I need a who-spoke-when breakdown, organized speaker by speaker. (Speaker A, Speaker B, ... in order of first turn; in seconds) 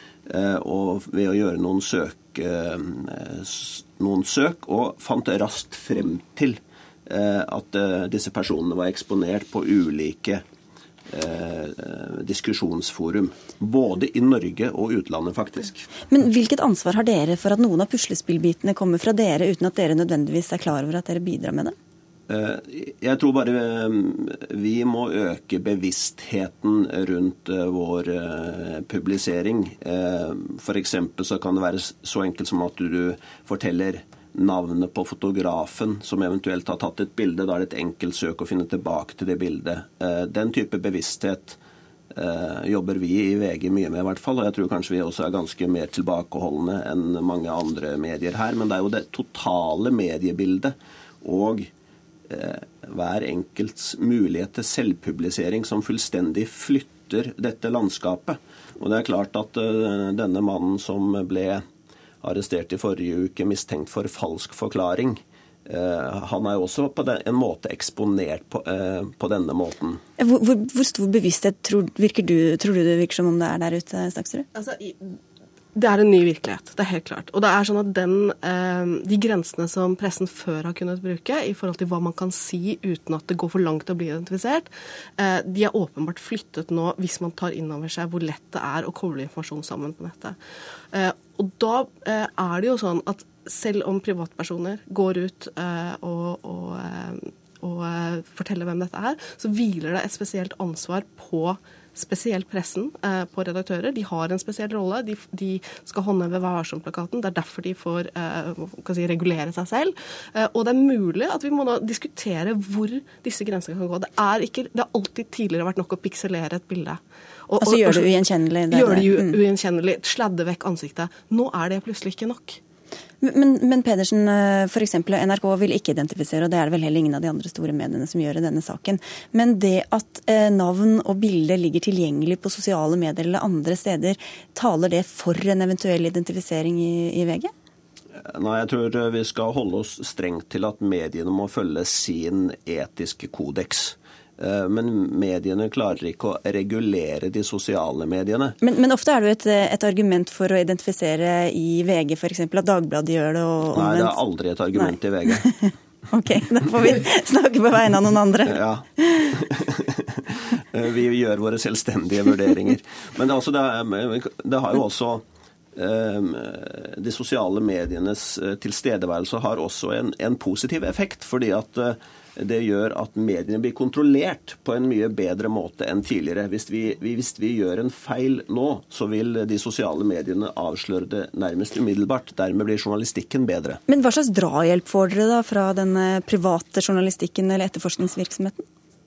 Speaker A: 0.3-10.4, 11.1-15.9, 22.3-41.6, 42.1-51.7, 52.3-61.6, 62.2-70.0, 138.2-148.6, 153.7-155.5, 158.5-159.9, 160.7-165.2, 165.8-183.8
Speaker B: 16.1-21.8, 70.2-74.5, 117.6-119.4, 123.2-137.5, 148.6-154.2, 154.7-159.3, 183.9-188.7
Speaker C: 74.5-75.2, 75.8-90.4, 90.9-122.6